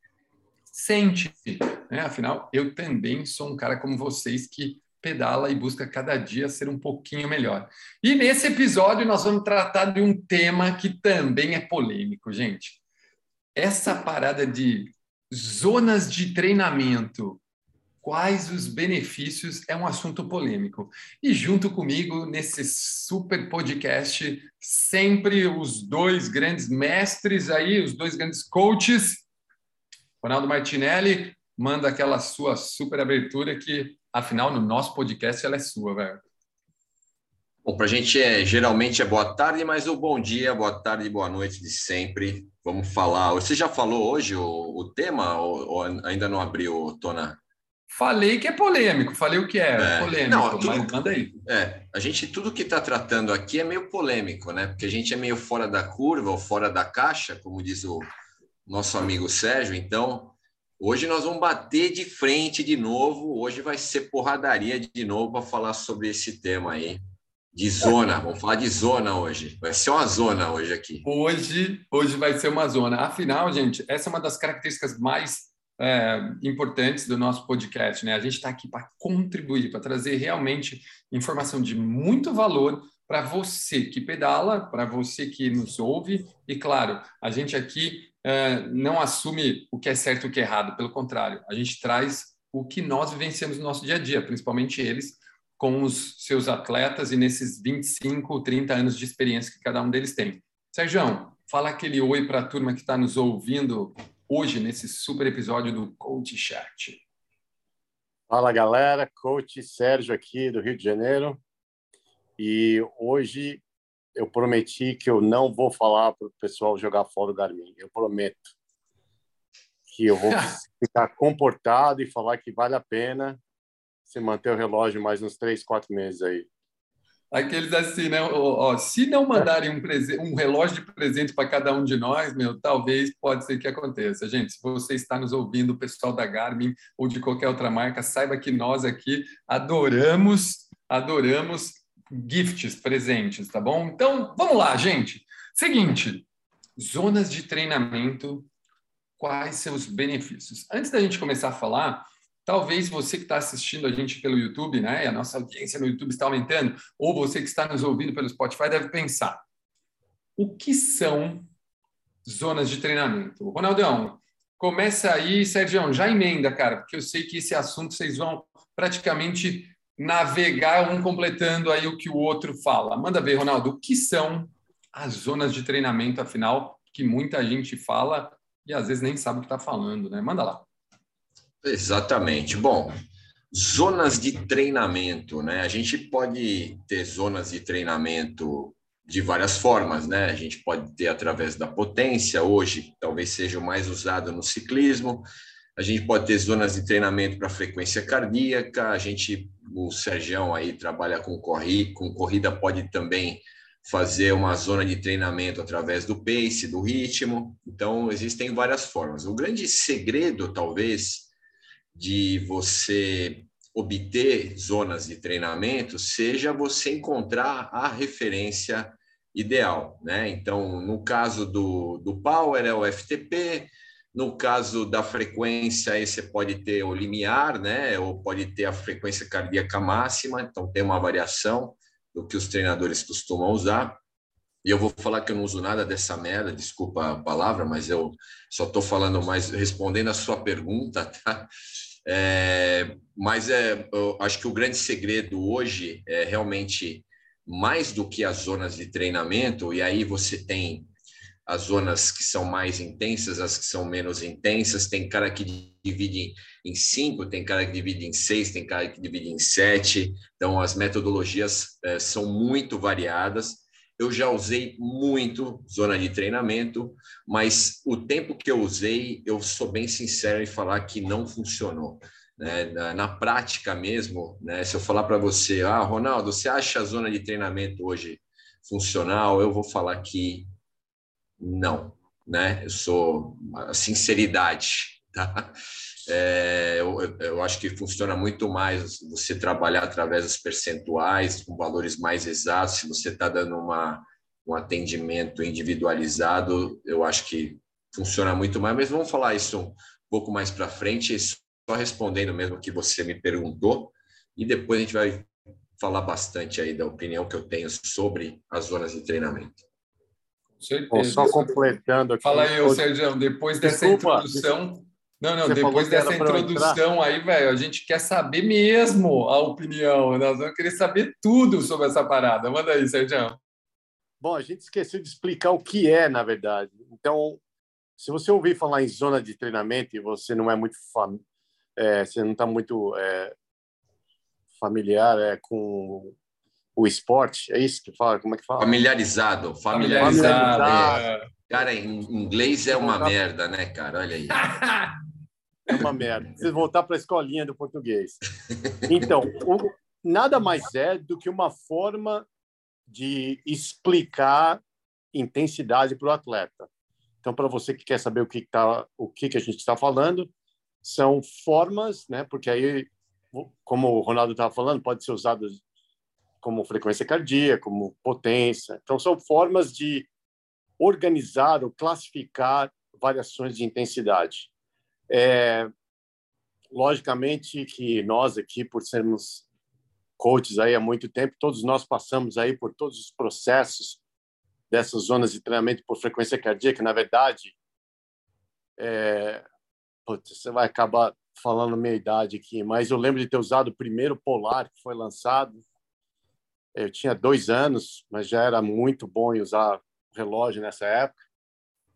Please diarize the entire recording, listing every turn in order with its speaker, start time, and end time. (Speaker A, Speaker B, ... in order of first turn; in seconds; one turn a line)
Speaker A: 0.7-12.8
Speaker A: 13.6-17.4
Speaker A: 18.0-29.3
Speaker A: 30.2-36.2
Speaker B: 37.6-47.4
Speaker A: 47.9-51.3
Speaker B: 49.8-58.1
Speaker B: 58.7-67.0
Speaker B: 67.5-71.1
Speaker A: 71.0-107.0
Speaker C: 108.3-111.4
Speaker C: 112.4-113.6
Speaker C: 114.2-118.5
Speaker C: 119.9-123.4
Speaker A: 120.3-120.6
Speaker C: 124.1-126.5
Speaker A: 127.3-148.5
Speaker A: 149.2-159.4
Speaker A: 160.4-161.5
Speaker A: 162.2-180.7
Speaker B: 181.6-182.9
Speaker B: 183.5-211.3
Speaker B: 211.9-234.0
Speaker B: 234.6-241.5
Speaker B: 242.1-250.9
Speaker B: 251.5-280.5
Speaker B: 281.4-285.5
Speaker B: 286.1-309.6
Speaker A: 310.6-323.4
Speaker C: 310.9-312.8
Speaker C: 313.6-314.5
Speaker C: 315.5-316.8
Speaker C: 324.2-327.4
Speaker C: 328.0-331.2
Speaker C: 331.8-333.3
Speaker C: 334.6-336.2
Speaker C: 336.8-338.8
Speaker B: 338.6-344.5
Speaker A: 339.7-341.3
Speaker C: 340.0-341.0
Speaker C: 342.7-343.1
Speaker A: 344.3-344.9
Speaker C: 345.7-348.2
Speaker C: 348.9-352.3
Speaker C: 352.9-354.6
Speaker C: 355.1-356.7
Speaker C: 357.2-360.3
Speaker C: 360.8-365.6
Speaker C: 366.4-370.1
Speaker C: 370.8-374.5
Speaker C: 375.1-375.7
Speaker C: 376.7-379.5
Speaker C: 380.2-384.0
Speaker C: 384.7-387.6
Speaker C: 388.8-389.4
Speaker C: 390.1-395.6
Speaker C: 396.8-401.2